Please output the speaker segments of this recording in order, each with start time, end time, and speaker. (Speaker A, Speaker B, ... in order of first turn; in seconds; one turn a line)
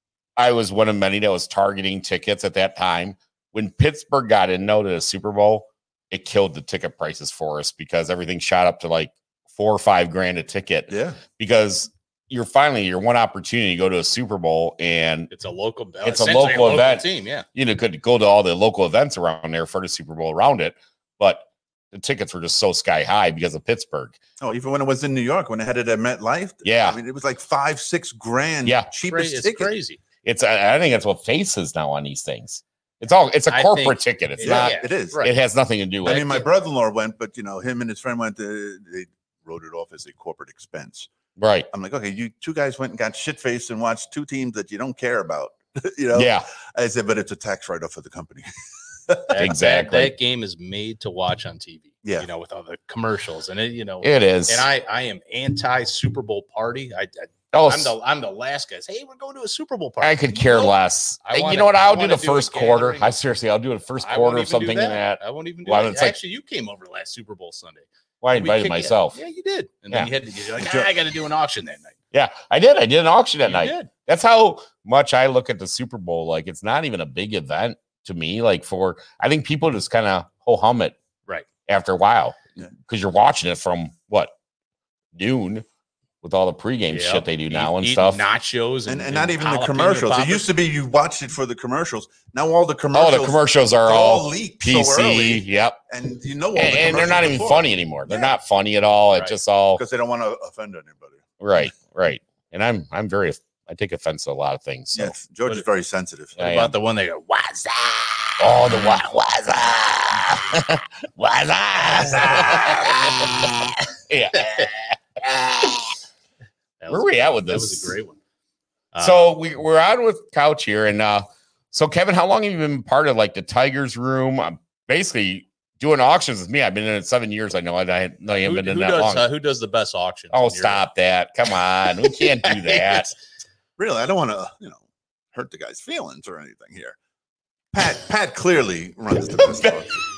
Speaker A: 0.4-15.3
Speaker B: 10.9-11.2
Speaker C: 15.3-17.4
Speaker A: 16.0-24.1
Speaker B: 24.4-29.7
Speaker A: 26.6-27.0
Speaker C: 29.0-30.0
Speaker A: 30.2-36.4
Speaker C: 33.5-35.3
Speaker B: 34.4-35.2
Speaker B: 36.0-41.1
Speaker C: 36.1-36.4
Speaker A: 41.4-41.7
Speaker B: 41.7-48.5
Speaker A: 46.1-46.5
Speaker B: 49.1-49.4
Speaker C: 49.3-63.1
Speaker A: 49.4-50.1
Speaker A: 54.0-54.6
Speaker A: 57.5-57.9
Speaker A: 60.0-66.2
Speaker C: 64.0-71.9
Speaker A: 68.2-69.2
Speaker B: 70.6-70.9
Speaker A: 72.1-80.9
Speaker C: 73.4-73.9
Speaker A: 81.7-82.3
Speaker A: 82.9-84.3
Speaker A: 85.1-85.6
Speaker A: 86.2-88.2
Speaker C: 86.9-90.5
Speaker B: 88.9-98.3
Speaker A: 92.9-95.8
Speaker A: 96.5-99.8
Speaker C: 99.1-99.4
Speaker B: 99.7-101.3
Speaker A: 101.4-105.2
Speaker B: 104.9-106.4
Speaker A: 106.4-106.7
Speaker C: 106.4-109.1
Speaker A: 108.4-115.9
Speaker C: 111.8-113.2
Speaker C: 114.4-114.7
Speaker C: 116.8-118.2
Speaker A: 116.9-117.9
Speaker C: 118.9-119.3
Speaker A: 119.0-129.2
Speaker C: 128.3-130.8
Speaker A: 130.3-133.1
Speaker C: 132.0-133.1
Speaker B: 133.8-136.9
Speaker B: 137.7-140.0
Speaker A: 139.4-139.8